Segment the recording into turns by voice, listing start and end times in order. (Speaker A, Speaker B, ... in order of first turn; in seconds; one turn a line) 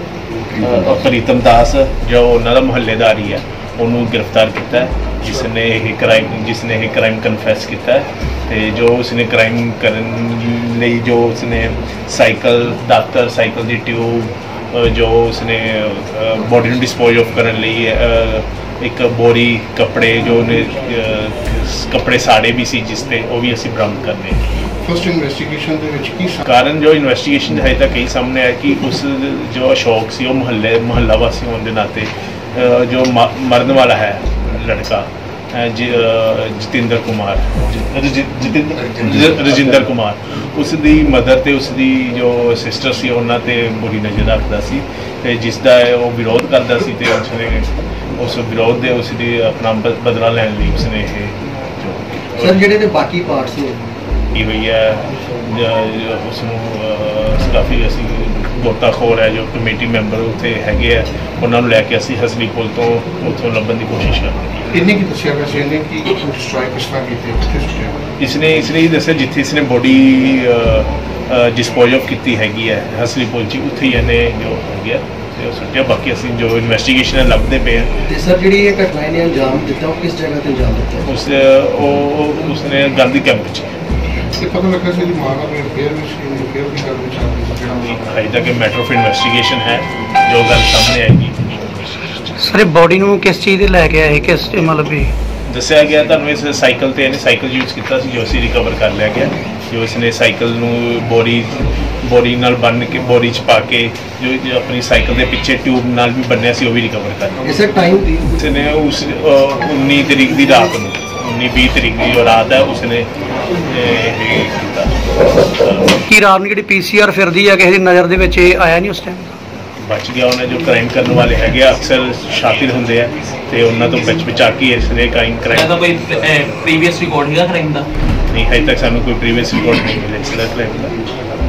Speaker A: 0.6-24.4
Speaker B: 24.8-26.4
Speaker A: 26.4-52.6
Speaker C: 52.4-53.8
Speaker A: 54.3-64.7
Speaker B: 64.7-68.0
Speaker A: 68.2-78.0
Speaker C: 78.0-81.1
Speaker A: 81.0-83.8
Speaker B: 84.4-88.0
Speaker A: 87.8-92.4
Speaker D: 92.4-95.1
Speaker A: 95.5-107.5
Speaker C: 107.4-108.3
Speaker A: 108.3-116.0
Speaker D: 116.1-119.3
Speaker A: 119.8-125.7
Speaker E: 125.5-127.9
Speaker A: 128.3-131.0